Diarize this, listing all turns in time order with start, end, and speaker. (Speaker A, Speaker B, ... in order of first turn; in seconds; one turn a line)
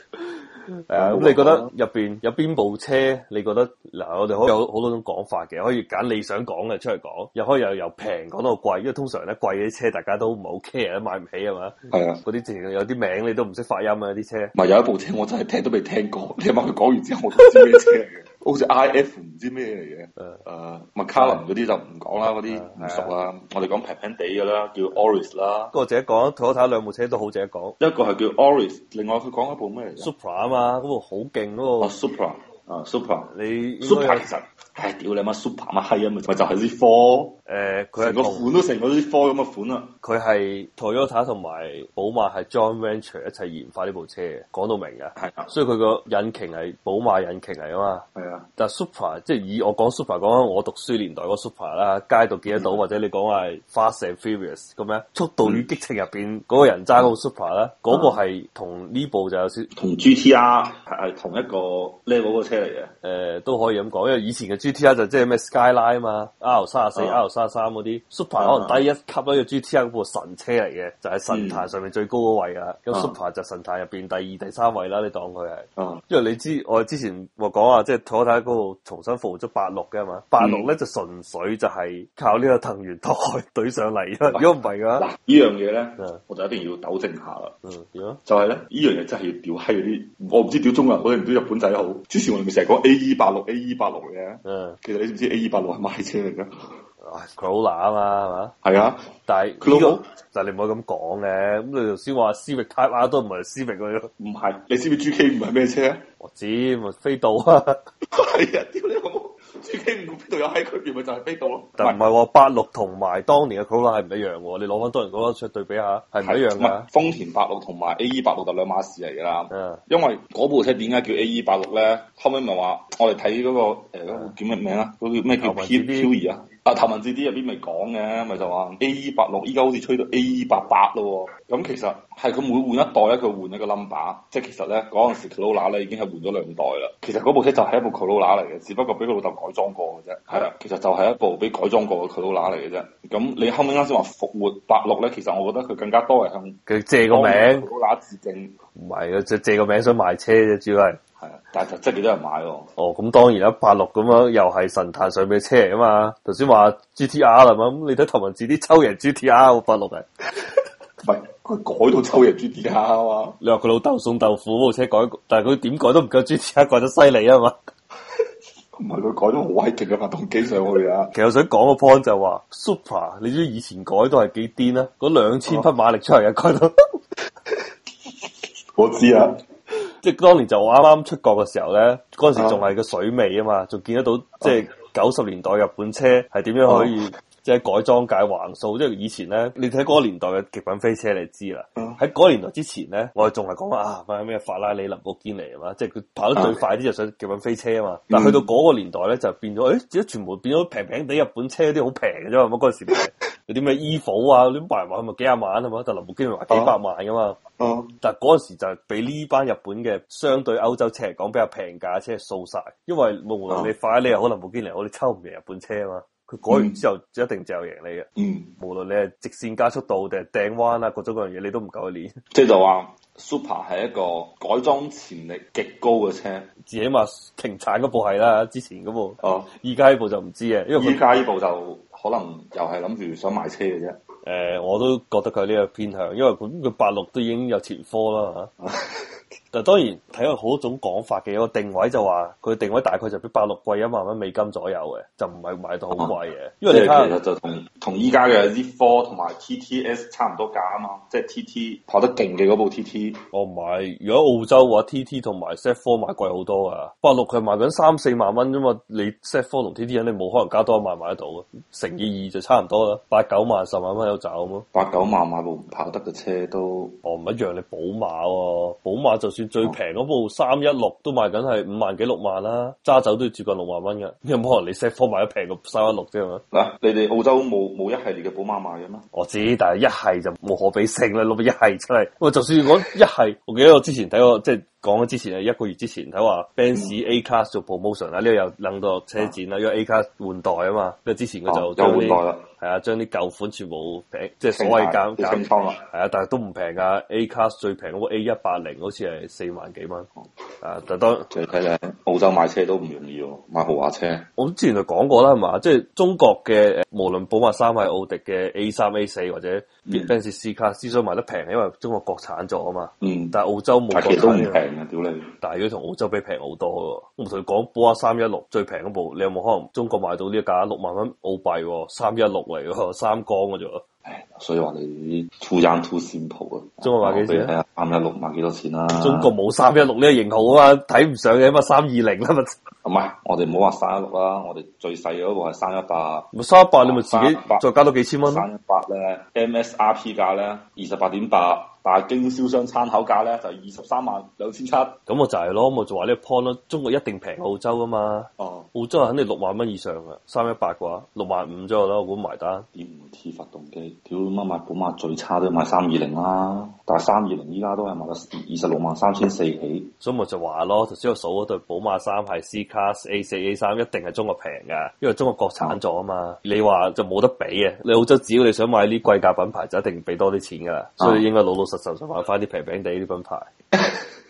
Speaker A: 0.1-14.5
Speaker B: 0.9-1.7
Speaker B: 11.9-12.2
Speaker B: 14.5-25.7
Speaker A: 21.2-21.4
Speaker A: 22.5-23.1
Speaker A: 25.7-27.8
Speaker B: 27.8-30.1
Speaker A: 30.0-31.9
Speaker B: 31.8-33.3
Speaker A: 33.3-34.3
Speaker B: 33.8-37.3
Speaker A: 37.5-38.5
Speaker B: 38.0-39.9
Speaker A: 40.0-48.0
Speaker B: 45.2-45.5
Speaker B: 48.1-48.5
Speaker A: 48.6-59.7
Speaker B: 52.5-52.8
Speaker B: 55.4-55.7
Speaker B: 57.9-58.2
Speaker B: 59.7-62.9
Speaker A: 63.0-85.1
Speaker B: 66.9-67.2
Speaker B: 68.4-68.8
Speaker B: 71.3-71.7
Speaker B: 75.8-76.0
Speaker B: 80.4-80.7
Speaker B: 84.3-87.6
Speaker A: 87.6-88.2
Speaker B: 88.2-96.8
Speaker A: 94.4-94.8
Speaker A: 97.0-98.5
Speaker B: 98.6-99.1
Speaker A: 99.3-104.1
Speaker B: 99.6-100.0
Speaker B: 104.2-106.0
Speaker A: 106.2-107.8
Speaker B: 108.1-112.0
Speaker A: 111.8-116.9
Speaker B: 116.2-148.5
Speaker A: 119.5-119.8
Speaker A: 125.4-126.1
Speaker A: 146.7-147.7
Speaker A: 148.8-151.0
Speaker B: 151.2-152.7
Speaker A: 152.8-160.1
Speaker B: 161.0-163.3
Speaker A: 163.4-167.6
Speaker B: 168.8-171.1
Speaker A: 171.1-176.7
Speaker B: 178.8-179.3
Speaker A: 180.0-207.4
Speaker B: 182.3-182.6
Speaker B: 186.7-186.9
Speaker B: 198.1-198.4
Speaker B: 206.5-206.8
Speaker B: 207.6-207.9
Speaker A: 208.0-222.1
Speaker B: 216.5-216.8
Speaker B: 218.2-218.5
Speaker B: 222.3-226.5
Speaker A: 226.7-231.0
Speaker B: 229.2-229.5
Speaker B: 230.8-234.0
Speaker A: 234.2-238.5
Speaker B: 238.6-239.0
Speaker A: 239.5-247.2
Speaker B: 246.7-253.2
Speaker A: 253.3-264.6
Speaker B: 264.7-267.0
Speaker A: 267.0-276.4
Speaker B: 276.5-279.0
Speaker A: 279.1-300.1
Speaker B: 291.5-292.5
Speaker B: 294.5-295.8
Speaker A: 300.6-301.3
Speaker B: 301.3-304.3
Speaker A: 304.4-314.6
Speaker B: 309.9-310.1
Speaker B: 313.0-313.3
Speaker B: 313.9-315.3
Speaker A: 315.4-323.8
Speaker B: 324.1-329.3
Speaker A: 326.8-327.5
Speaker A: 329.0-332.6
Speaker B: 332.8-336.3
Speaker A: 336.3-338.4
Speaker B: 336.8-337.6
Speaker B: 338.2-345.0
Speaker A: 345.1-352.6
Speaker B: 348.4-348.7
Speaker B: 352.7-359.9
Speaker A: 360.0-373.5